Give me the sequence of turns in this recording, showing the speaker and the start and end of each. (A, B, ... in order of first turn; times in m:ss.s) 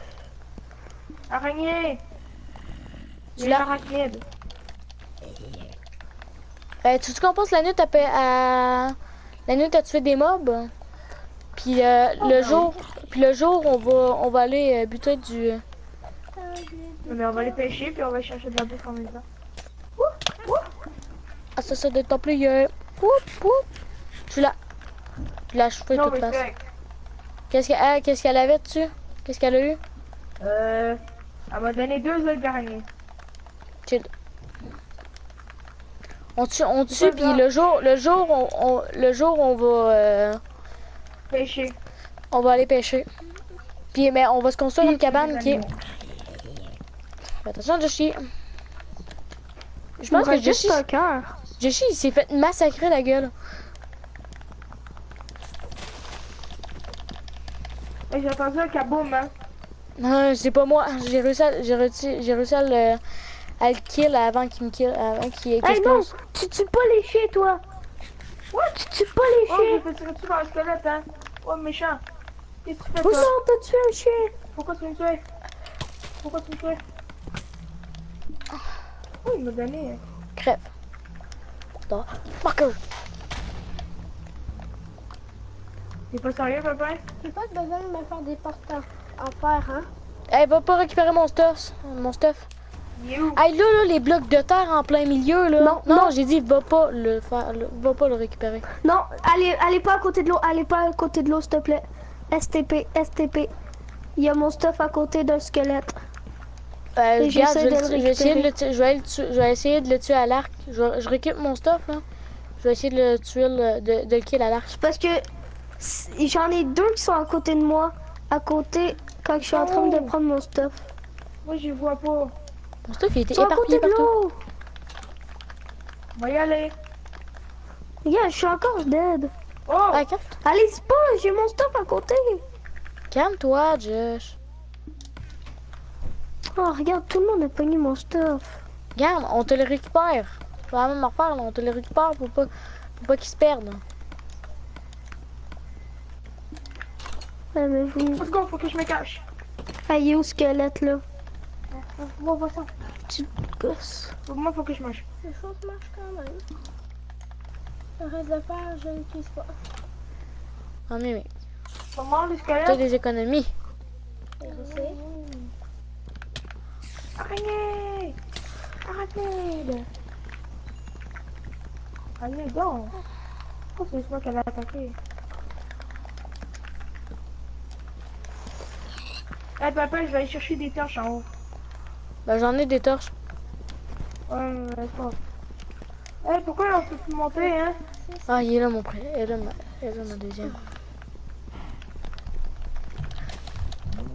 0:01.3-0:02.0 A
0:03.4-0:03.6 B
0:03.4-0:04.2 A
0:06.8-0:09.0 B
0:09.5-0:10.7 B
0:11.6-0:15.6 B
0:12.2-0:12.7 A
0:16.4-0:17.6 C
0:17.1-0:19.2 A
0:20.0-0:20.6 A
0:21.6-0:22.7 B
0:23.0-0:23.6 D
0:24.3-0:24.6 B
0:25.5-0:26.4 B
0:25.9-0:26.6 A
0:27.5-0:29.8 B
0:30.4-0:31.0 A
0:31.5-0:32.8 A
0:36.4-0:40.4 B
0:36.9-0:37.4 A
0:41.3-0:41.8 A
0:42.3-0:43.1 B
0:43.9-0:45.6 B
0:44.8-0:45.8 A
0:47.4-0:48.2 B
0:50.0-0:50.8 B
0:50.1-0:51.4 D
0:51.6-0:53.3 B
0:58.1-0:59.3 A
1:00.0-1:03.0 B
1:03.6-1:06.1 B
1:05.6-1:07.6 D
1:08.7-1:09.8 D
1:09.5-1:12.0 A
1:12.6-1:13.3 A
1:13.0-1:13.3 B
1:13.0-1:14.3 D
1:14.5-1:15.2 A
1:16.2-1:16.8 A
1:19.2-1:20.0 A
1:20.4-1:20.6 B
1:21.9-1:22.8 B
1:26.1-1:27.0 A
1:27.2-1:29.9 C
1:30.3-1:32.5 B
1:33.0-1:33.4 A
1:33.4-1:38.6 B
1:35.6-1:36.1 D
1:38.8-1:43.5 D
1:44.2-1:46.0 D
1:47.0-1:52.0 B
1:47.2-1:48.5 D
1:52.6-1:54.7 B
1:54.7-1:55.2 D
1:55.8-2:00.8 D
1:59.5-2:00.1 A
2:01.4-2:02.3 A
2:02.9-2:04.1 B
2:03.3-2:04.4 D
2:06.1-2:06.7 A
2:08.0-2:09.3 D
2:09.7-2:10.0 A
2:09.9-2:10.4 B
2:10.4-2:12.4 D
2:13.1-2:14.4 B
2:16.5-2:18.6 D
2:19.0-2:23.8 B
2:27.5-2:28.3 D
2:28.2-2:29.2 A
2:29.9-2:31.0 D
2:31.7-2:32.7 A
2:33.1-2:34.1 D
2:34.3-2:35.0 A
2:35.2-2:36.4 C
2:38.0-2:39.5 C
2:40.9-2:41.3 B
2:41.9-2:42.8 A
2:42.6-2:43.5 B
2:44.4-2:45.0 C
2:44.4-2:45.5 A
2:47.2-2:48.1 A
2:48.8-2:49.9 A
2:52.2-2:52.9 A
2:53.8-2:55.0 A
2:59.6-3:01.2 A
3:02.2-3:03.1 B
3:04.3-3:05.2 A
3:06.2-3:07.8 A
3:07.4-3:08.4 C
3:08.3-3:10.6 B